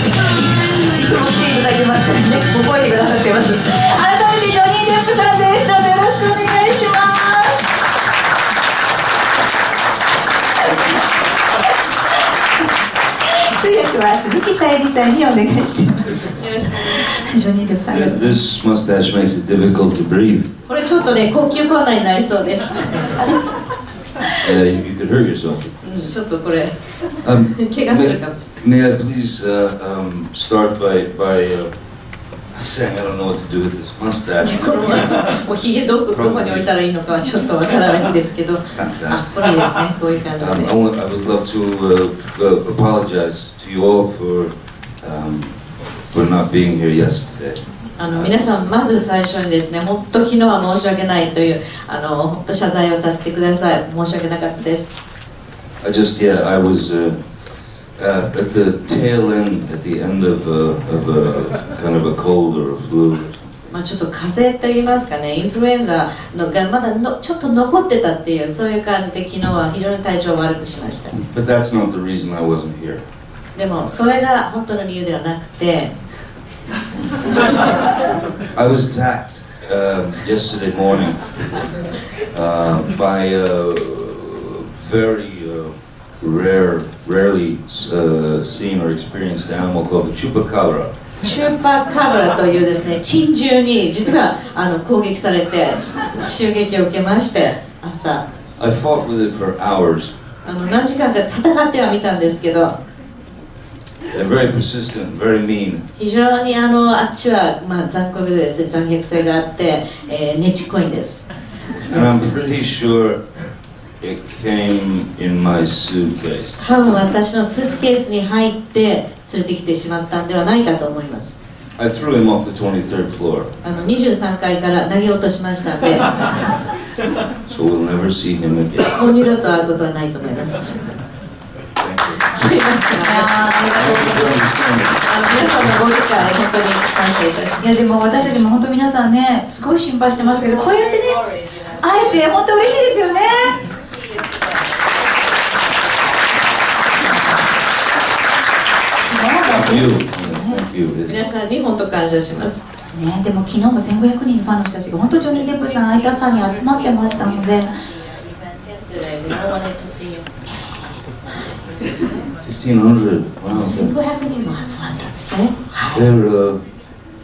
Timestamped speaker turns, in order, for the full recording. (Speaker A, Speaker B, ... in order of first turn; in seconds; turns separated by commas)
Speaker A: 0.4-7.6, Speaker A: 13.5-18.4, Speaker B: 16.4-17.0, Speaker C: 17.9-20.5, Speaker B: 20.7-23.4, Speaker C: 24.4-26.4, Speaker B: 25.8-28.5, Speaker C: 27.2-35.1, Speaker B: 34.4-40.7, Speaker C: 36.1-36.7, Speaker C: 38.6-39.5, Speaker C: 40.4-48.9, Speaker B: 48.0-55.0, Speaker C: 55.8-63.7, Speaker B: 63.7-71.2, Speaker C: 71.3-73.0, Speaker B: 73.5-76.2, Speaker C: 78.5-91.0, Speaker B: 91.2-98.2, Speaker C: 98.6-100.1, Speaker B: 100.4-102.8, Speaker C: 104.1-105.8, Speaker B: 106.0-111.7, Speaker C: 111.8-113.4, Speaker C: 114.0-116.6, Speaker B: 116.6-121.4, Speaker C: 121.8-123.5, Speaker B: 123.6-126.4, Speaker C: 127.5-129.0, Speaker B: 128.9-131.0, Speaker C: 131.8-132.3, Speaker B: 132.3-134.1, Speaker A: 133.0-134.2, Speaker C: 133.7-135.8, Speaker B: 135.1-138.0, Speaker A: 137.6-143.6, Speaker A: 149.1-150.6, Speaker C: 149.5-151.2, Speaker B: 151.1-152.6, Speaker A: 152.9-157.8, Speaker B: 158.8-160.3, Speaker C: 162.4-163.9, Speaker B: 163.5-166.0, Speaker C: 165.9-166.8